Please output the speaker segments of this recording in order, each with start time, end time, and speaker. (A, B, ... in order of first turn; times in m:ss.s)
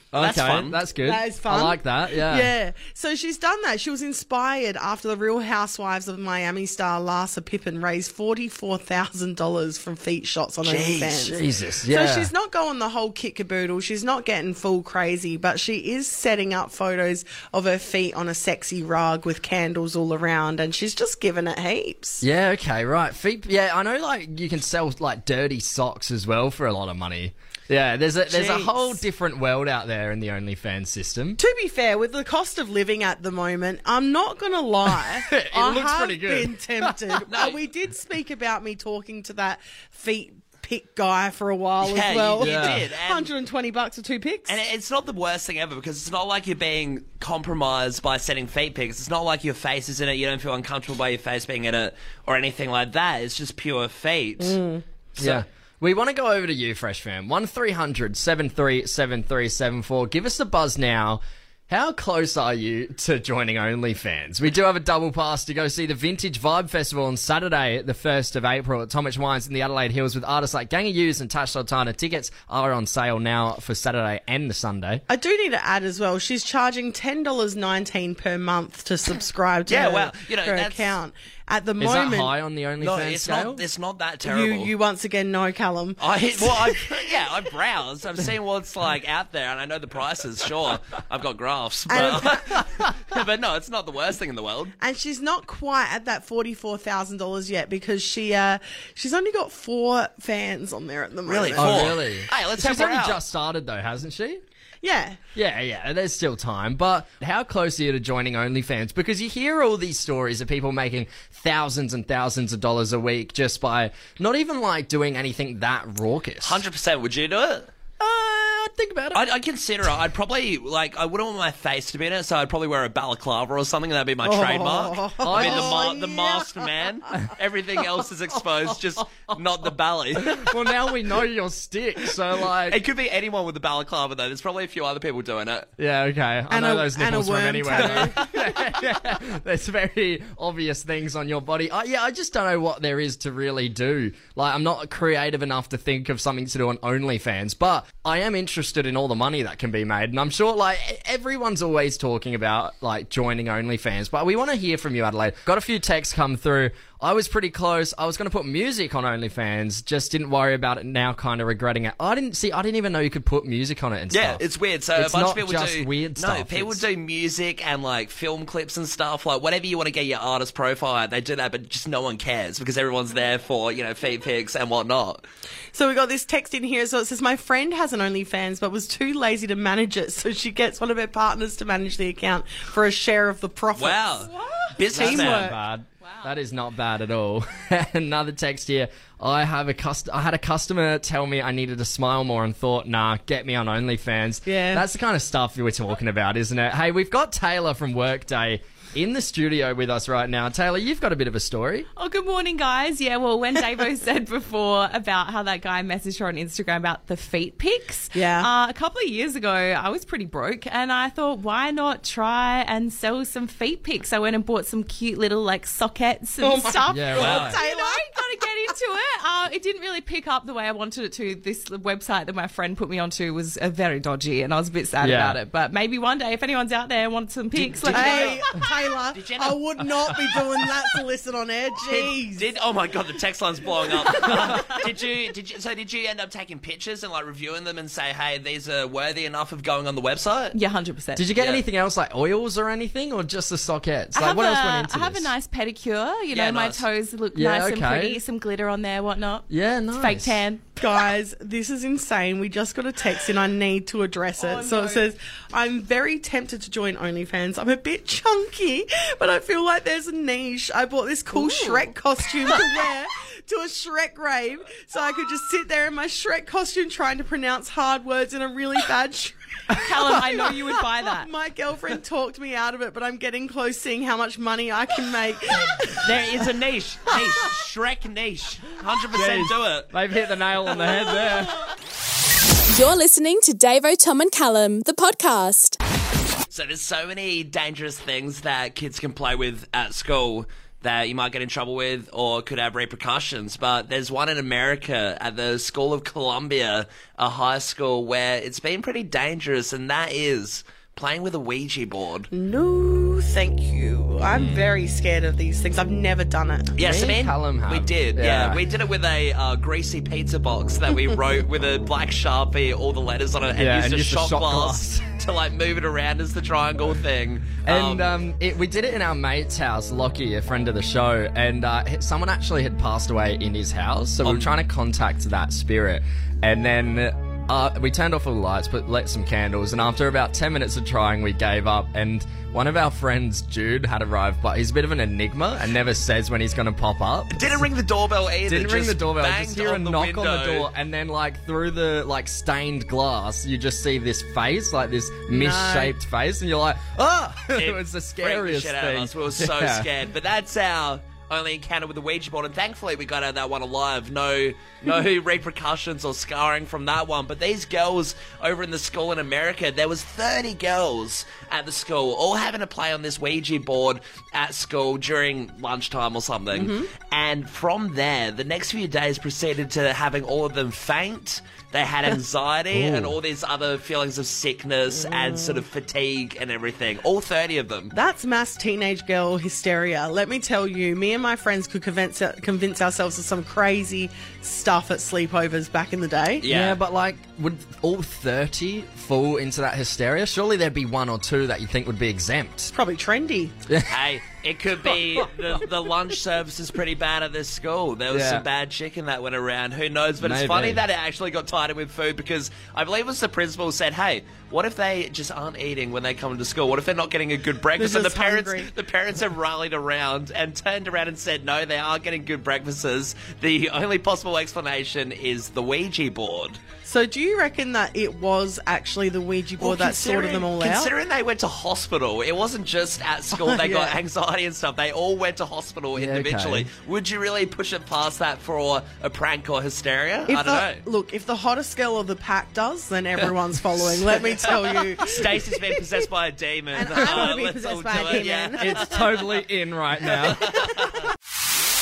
0:00.1-0:02.5 A
0:00.2-0:00.8 B
0:01.0-0:22.2 C
0:10.6-0:11.3 B
0:11.2-0:12.3 A
0:22.2-0:31.4 A
0:28.3-0:29.0 C
0:31.4-0:44.6 C
0:34.8-0:37.3 A
0:37.3-0:37.6 B
0:41.8-0:43.3 B
0:42.4-0:42.9 A
0:44.5-0:54.6 B
0:54.4-0:54.8 C
0:55.2-1:15.0 A
0:55.2-0:55.4 B
1:15.1-1:22.3 C
1:19.7-1:21.0 B
1:21.8-1:23.6 A
1:22.8-1:24.7 B
1:24.2-1:27.2 C
1:26.0-1:34.7 B
1:31.9-1:32.4 C
1:32.0-1:32.2 A
1:34.8-1:42.0 C
1:41.2-1:43.2 B
1:41.6-1:44.4 A
1:44.8-1:45.2 C
1:45.4-1:56.6 A
1:56.4-1:57.7 B
1:58.0-1:59.2 A
1:59.1-2:10.4 B
2:04.2-2:06.7 C
2:05.2-2:05.9 A
2:10.2-2:12.8 A
2:12.6-2:15.7 B
2:15.8-2:44.4 A
2:16.5-2:18.2 C
2:17.7-2:18.1 B
2:44.1-2:55.2 B
2:44.9-2:46.8 A
2:55.7-3:04.3 C
3:03.7-3:05.5 B
3:04.2-3:04.7 D
3:04.9-3:21.9 A
3:04.9-3:05.6 C
3:06.0-3:06.3 D
3:14.4-3:14.8 C
3:22.0-3:48.5 D
3:28.1-3:28.5 C
3:36.4-3:38.2 C
3:36.9-3:37.6 A
3:37.2-3:37.5 B
3:45.0-3:45.4 A
3:47.5-3:48.5 B
3:47.9-3:52.5 C
3:49.1-3:49.6 B
3:51.8-4:00.6 B
4:00.5-4:01.3 D
4:01.1-4:05.3 A
4:01.4-4:01.6 B
4:04.1-4:10.6 D
4:06.3-4:06.9 B
4:07.3-4:08.2 A
4:09.5-4:10.4 A
4:10.8-4:30.2 C
4:14.4-4:15.1 D
4:21.3-4:21.9 D
4:29.8-4:31.3 D
4:31.1-4:36.4 C
4:36.0-4:39.9 B
4:39.1-4:41.6 A
4:42.7-4:45.8 E
4:46.5-5:02.3 B
5:02.3-5:06.7 C
5:04.3-5:04.6 B
5:06.8-5:18.0 B
5:06.8-5:08.6 A
5:13.5-5:15.1 A
5:17.6-5:37.7 A
5:24.2-5:24.5 B
5:37.3-5:40.7 B
5:38.5-5:49.9 A
5:45.3-5:45.9 C
5:47.5-6:17.9 B
6:06.5-6:06.9 C
6:12.7-6:13.2 A
6:14.9-6:15.6 C
6:17.9-6:26.4 C
6:26.4-6:26.8 B
6:26.4-6:32.7 A
6:32.7-6:33.6 C
6:33.7-6:33.9 A
6:33.9-6:56.6 B
6:38.1-6:38.4 A
6:40.2-6:40.8 A
6:47.7-6:48.7 C
6:56.8-7:00.9 C
6:59.6-7:10.8 B
7:03.3-7:04.0 C
7:06.0-7:06.7 A
7:10.3-7:16.0 C
7:15.0-7:19.4 B
7:16.7-7:18.9 C
7:16.9-7:17.3 A
7:18.6-7:20.6 A
7:20.1-7:20.9 B